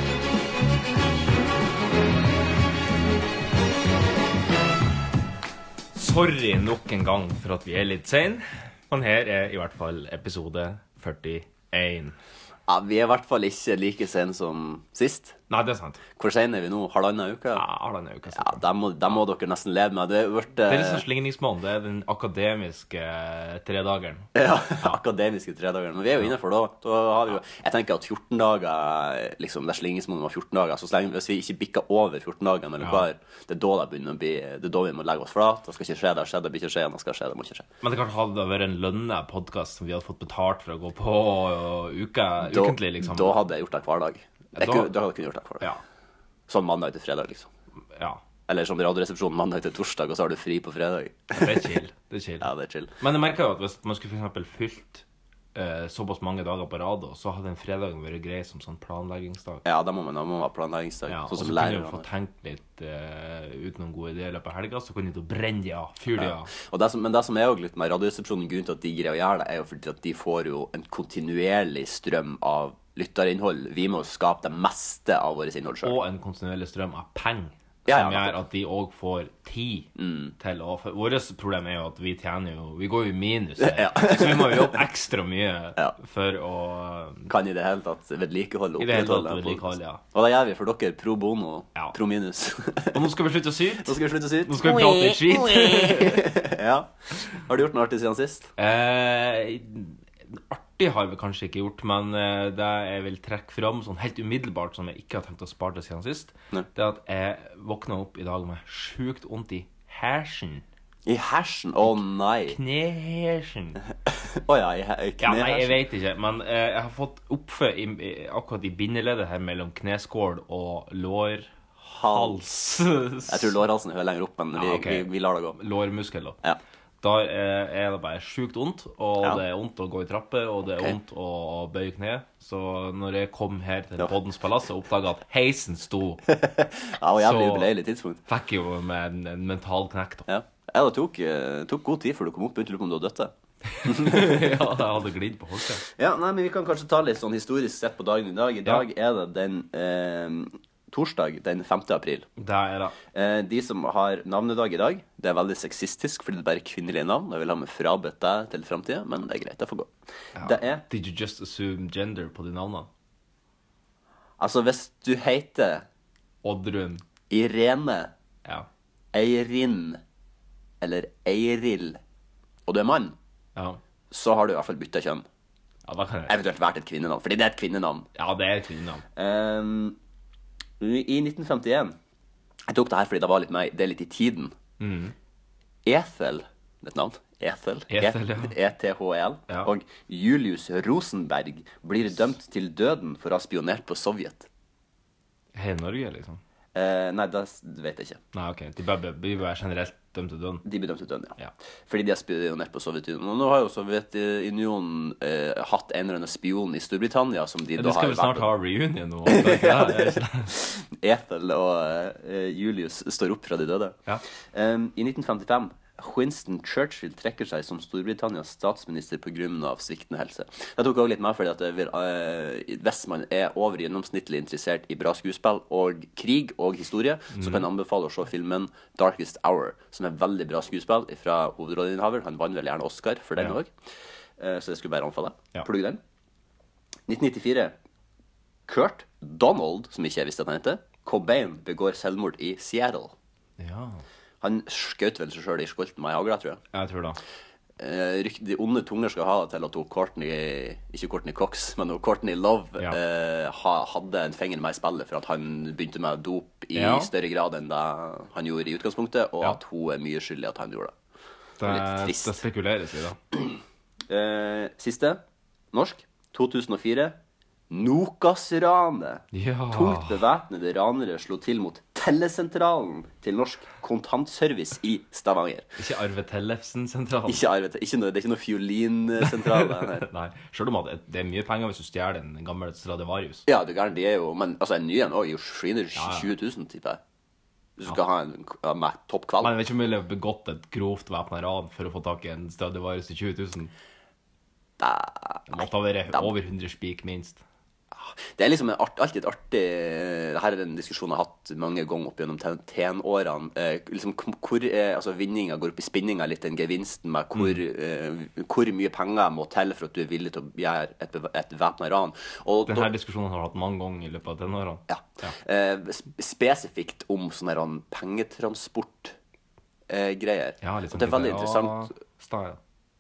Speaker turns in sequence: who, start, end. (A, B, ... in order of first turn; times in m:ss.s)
0:06.0-0:12.2 A
0:12.7-0:15.4 B
0:15.5-0:16.0 A
0:16.2-0:17.6 B
0:17.6-0:19.2 A
0:18.4-0:21.0 B
0:20.7-0:24.3 A
0:24.4-0:37.7 B
0:32.8-0:33.1 A
0:37.8-0:43.4 A
0:42.4-0:45.7 B
0:44.6-0:44.9 A
0:46.5-0:47.5 B
0:48.0-0:48.2 A
0:48.5-0:51.7 B
0:51.3-0:52.5 A
0:52.4-0:52.9 B
0:53.0-0:59.6 A
0:59.6-1:02.0 B
1:01.1-1:06.5 A
1:06.2-1:16.0 B
1:15.8-1:27.3 A
1:17.9-1:18.4 B
1:20.0-1:20.3 B
1:23.6-1:24.8 B
1:27.3-1:33.0 B
1:28.8-1:30.0 A
1:32.9-1:36.3 A
1:33.8-1:38.5 B
1:38.6-1:50.6 A
1:51.1-1:52.6 B
1:52.5-1:53.8 A
1:54.3-1:55.8 B
1:55.2-2:01.5 A
2:01.9-2:02.4 B
2:02.0-2:03.6 A
2:03.3-2:05.6 B
2:04.5-2:06.4 A
2:07.0-2:16.2 A
2:16.3-2:18.2 B
2:17.2-2:17.7 A
2:18.3-2:20.3 A
2:20.3-2:23.3 B
2:23.7-2:25.8 A
2:23.9-2:24.6 B
2:25.9-2:32.3 B
2:32.4-2:33.0 A
2:33.1-2:40.8 B
2:40.4-2:42.9 A
2:44.4-2:45.8 B
2:46.4-2:47.0 A
2:47.3-2:48.1 B
2:49.1-2:50.0 B
2:50.8-2:52.0 B
2:52.7-2:53.2 B
2:54.1-2:55.2 B
2:55.8-2:56.4 A
2:56.3-2:58.1 B
2:58.2-2:59.0 A
2:59.2-3:00.0 B
3:00.8-3:02.0 B
3:02.7-3:04.6 B
3:04.8-3:05.2 A
3:05.9-3:14.5 B
3:07.9-3:08.6 A
3:15.5-3:16.4 A
3:16.8-3:18.2 B
3:18.3-3:20.6 A
3:20.6-3:21.4 B
3:21.9-3:28.5 B
3:27.8-3:30.5 A
3:29.3-3:34.0 B
3:34.5-3:53.7 B
3:47.3-3:47.7 A
3:54.4-3:56.0 B
3:57.1-3:57.8 B
3:58.7-4:03.1 B
4:03.6-4:04.0 A
4:04.4-4:06.6 B
4:06.7-4:07.2 A
4:07.8-4:21.0 B
4:16.8-4:17.1 A
4:21.6-4:23.2 A
4:21.6-4:22.4 B
4:24.1-4:25.2 B
4:25.7-4:27.2 B
4:27.7-4:35.7 B
4:29.3-4:30.3 A
4:35.8-4:37.4 A
4:37.3-4:40.1 B
4:39.2-4:43.4 A
4:43.5-4:47.0 B
4:46.0-4:46.3 A
4:47.8-4:49.5 B
4:49.4-4:53.7 A
4:54.8-4:56.3 B
4:55.5-4:57.4 A
4:58.0-5:12.9 B
5:12.7-5:15.4 A
5:14.9-5:19.2 B
5:19.9-5:21.9 B
5:20.6-5:22.6 A